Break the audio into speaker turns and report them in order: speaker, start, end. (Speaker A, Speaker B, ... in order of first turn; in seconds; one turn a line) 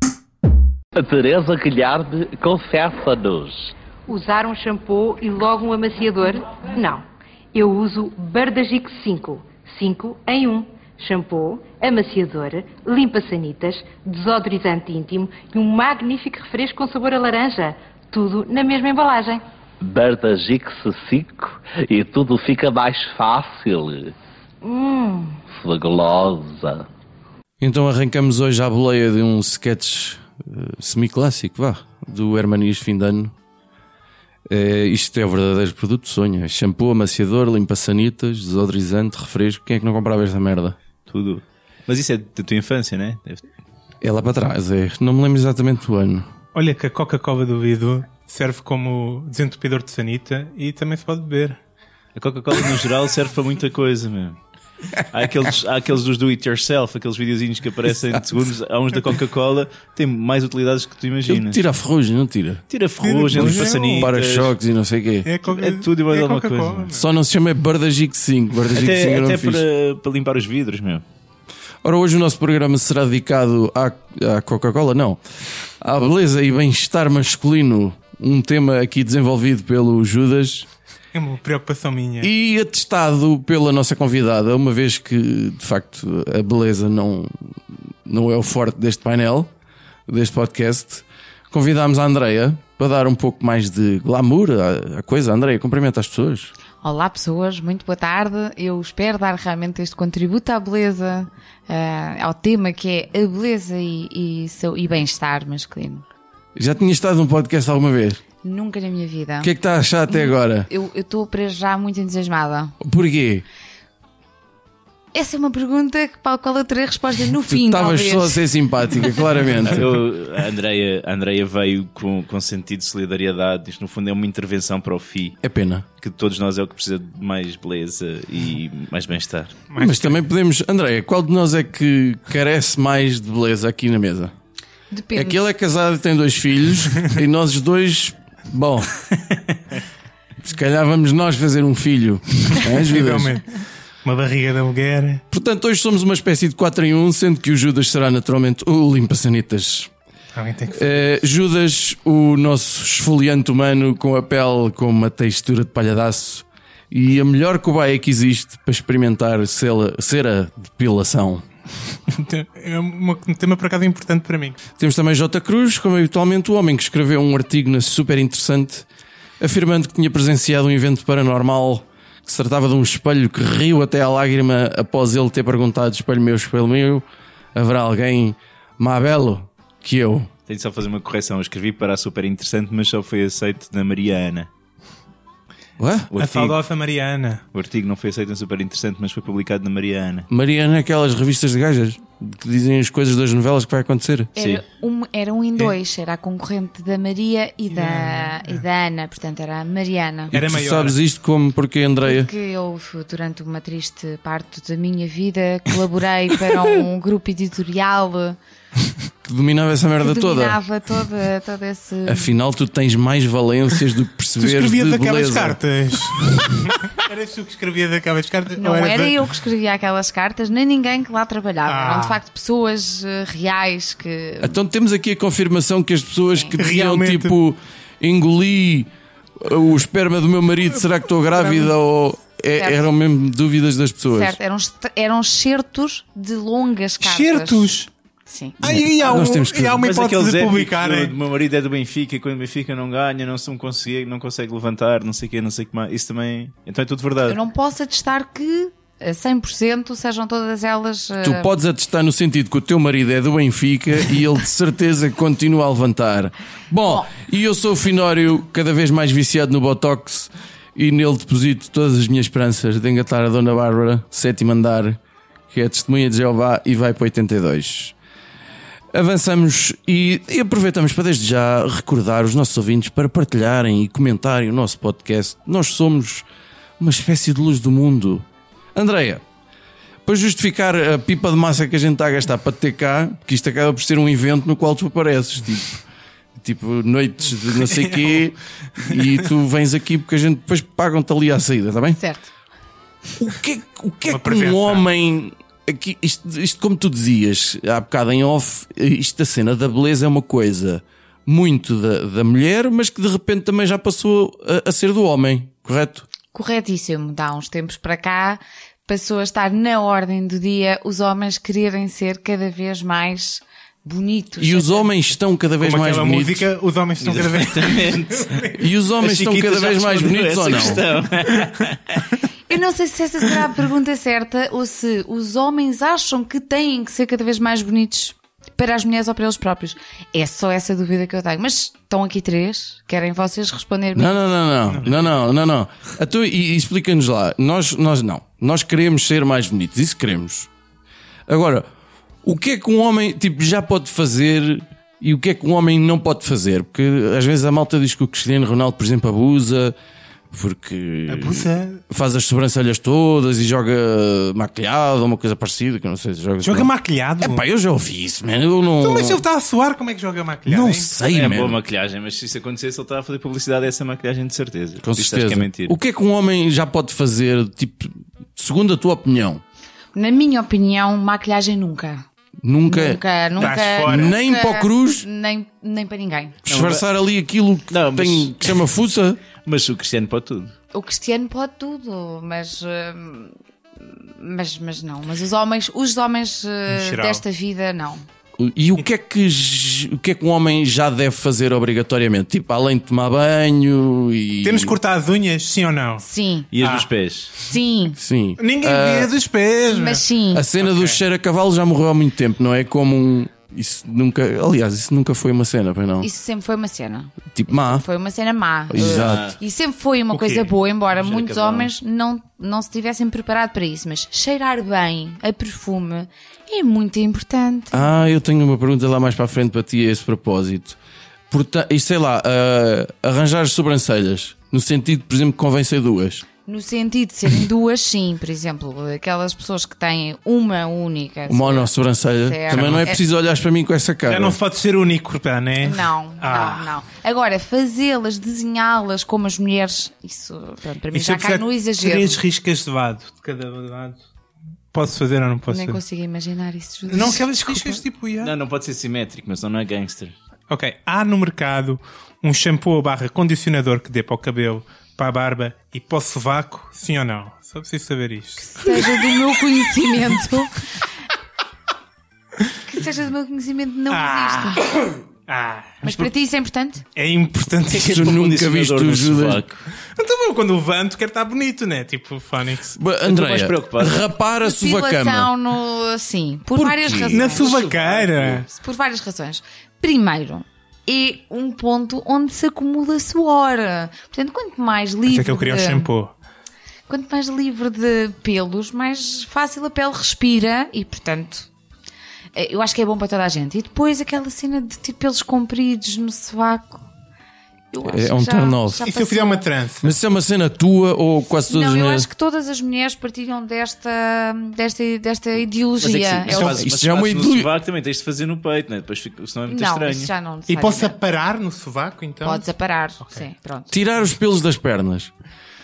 Speaker A: 0.9-3.7
Speaker B: 4.1-19.4
Speaker A: 19.8-24.1
Speaker C: 24.6-25.4
Speaker A: 25.5-26.9
Speaker D: 27.6-33.3
Speaker D: 34.5-40.8
Speaker E: 41.1-43.5
Speaker D: 44.0-46.2
Speaker F: 46.5-51.6
Speaker E: 52.1-54.4
Speaker E: 55.1-61.6
Speaker D: 61.3-62.6
Speaker E: 62.7-64.5
Speaker F: 63.0-64.1
Speaker D: 63.3-65.3
Speaker F: 65.2-67.1
Speaker E: 65.5-66.9
Speaker D: 66.9-69.6
Speaker E: 68.7-71.0
Speaker D: 71.8-75.2
Speaker D: 75.8-80.7
Speaker F: 81.1-82.3
Speaker D: 82.2-89.5
Speaker D: 90.1-96.5
Speaker C: 96.8-106.0
Speaker D: 106.5-108.2
Speaker C: 108.4-109.5
Speaker D: 109.4-110.7
Speaker C: 110.1-112.8
Speaker D: 112.8-113.5
Speaker C: 115.1-118.4
Speaker D: 117.5-120.0
Speaker E: 119.6-125.4
Speaker D: 125.4-125.8
Speaker E: 126.0-129.6
Speaker F: 129.7-130.2
Speaker D: 129.8-134.3
Speaker C: 134.9-135.4
Speaker D: 135.1-138.9
Speaker D: 140.4-143.4
Speaker F: 142.7-145.2
Speaker D: 145.3-149.9
Speaker F: 150.3-151.1
Speaker D: 150.7-161.4
Speaker F: 162.1-164.6
Speaker D: 164.8-168.9
Speaker D: 169.4-180.3
Speaker E: 180.5-184.5
Speaker D: 185.8-186.1
Speaker E: 186.1-186.6
Speaker F: 186.2-187.4
Speaker E: 187.5-190.3
Speaker D: 190.3-194.3
Speaker C: 194.3-200.3
Speaker E: 194.4-194.6
Speaker F: 197.7-198.6
Speaker F: 200.3-201.0
Speaker D: 200.3-202.3
Speaker C: 202.0-208.4
Speaker D: 209.2-210.6
Speaker C: 210.0-212.4
Speaker D: 212.1-215.6
Speaker F: 214.4-219.2
Speaker C: 218.6-224.6
Speaker F: 221.7-222.2
Speaker D: 224.4-234.4
Speaker F: 226.6-227.4
Speaker C: 232.6-232.9
Speaker C: 234.1-237.7
Speaker F: 237.0-237.9
Speaker C: 238.3-238.6
Speaker D: 238.6-239.9
Speaker F: 238.6-241.1
Speaker E: 239.8-247.4
Speaker C: 247.3-251.5
Speaker D: 251.2-265.0
Speaker D: 265.5-267.9
Speaker D: 268.9-276.3
Speaker D: 276.8-279.2
Speaker D: 280.1-285.8
Speaker D: 286.4-292.0
Speaker F: 287.7-288.2
Speaker C: 292.0-292.3
Speaker D: 293.2-306.1
Speaker F: 294.1-294.8
Speaker C: 306.3-314.9
Speaker D: 314.4-316.5
Speaker F: 315.6-318.6
Speaker E: 317.0-322.1
Speaker D: 318.6-320.9
Speaker C: 322.5-334.2
Speaker D: 333.9-340.5
Speaker F: 334.7-335.1
Speaker D: 341.3-341.7
Speaker D: 342.2-349.8
Speaker D: 350.3-359.2
Speaker F: 351.1-351.8
Speaker F: 356.4-357.4
Speaker F: 358.8-360.9
Speaker D: 360.5-361.6
Speaker E: 361.1-365.8
Speaker D: 364.8-369.4
Speaker C: 369.9-372.1
Speaker D: 372.4-375.1
Speaker C: 372.7-376.4
Speaker F: 373.4-374.2
Speaker D: 376.5-379.2
Speaker E: 376.5-376.9
Speaker E: 377.7-378.6
Speaker E: 379.4-380.5
Speaker C: 380.7-388.0
Speaker F: 386.7-387.2
Speaker D: 388.4-394.8
Speaker F: 394.4-396.0
Speaker C: 396.0-396.5
Speaker E: 396.5-397.3
Speaker F: 396.6-396.9
Speaker C: 397.5-398.0
Speaker D: 398.0-399.1
Speaker F: 398.4-400.0
Speaker C: 399.7-400.5
Speaker D: 400.3-406.1
Speaker F: 400.6-401.0
Speaker C: 406.0-417.9
Speaker D: 407.3-407.9
Speaker D: 408.7-409.3
Speaker E: 408.8-409.4
Speaker F: 410.1-410.5
Speaker E: 410.9-411.7
Speaker D: 417.7-420.8
Speaker D: 421.3-426.2
Speaker C: 426.5-431.7
Speaker D: 431.3-434.4
Speaker C: 432.2-433.0
Speaker F: 432.5-432.9
Speaker F: 434.1-436.7
Speaker C: 435.6-442.2
Speaker F: 440.9-444.1
Speaker F: 444.7-445.8
Speaker C: 445.5-447.8
Speaker F: 446.9-448.3
Speaker E: 448.2-450.1
Speaker F: 450.5-459.1
Speaker C: 458.4-460.6
Speaker C: 462.7-464.6
Speaker F: 463.9-464.7
Speaker F: 465.3-465.8
Speaker C: 465.8-466.9
Speaker F: 467.0-468.1
Speaker E: 467.7-469.7
Speaker D: 467.9-469.4
Speaker F: 469.9-472.8
Speaker D: 472.8-475.3
Speaker E: 473.1-474.1
Speaker C: 474.4-477.6
Speaker D: 476.6-477.2
Speaker F: 477.1-478.5
Speaker E: 477.2-478.5
Speaker C: 478.5-485.9
Speaker F: 485.1-486.1
Speaker C: 486.9-491.5
Speaker C: 492.4-496.9
Speaker C: 497.7-499.5
Speaker D: 497.8-498.9
Speaker F: 498.8-499.9
Speaker D: 499.8-502.1
Speaker C: 501.5-506.6
Speaker E: 505.8-510.1
Speaker D: 506.3-507.5
Speaker C: 509.5-511.0
Speaker F: 510.5-512.5
Speaker C: 512.2-513.7
Speaker D: 513.7-515.1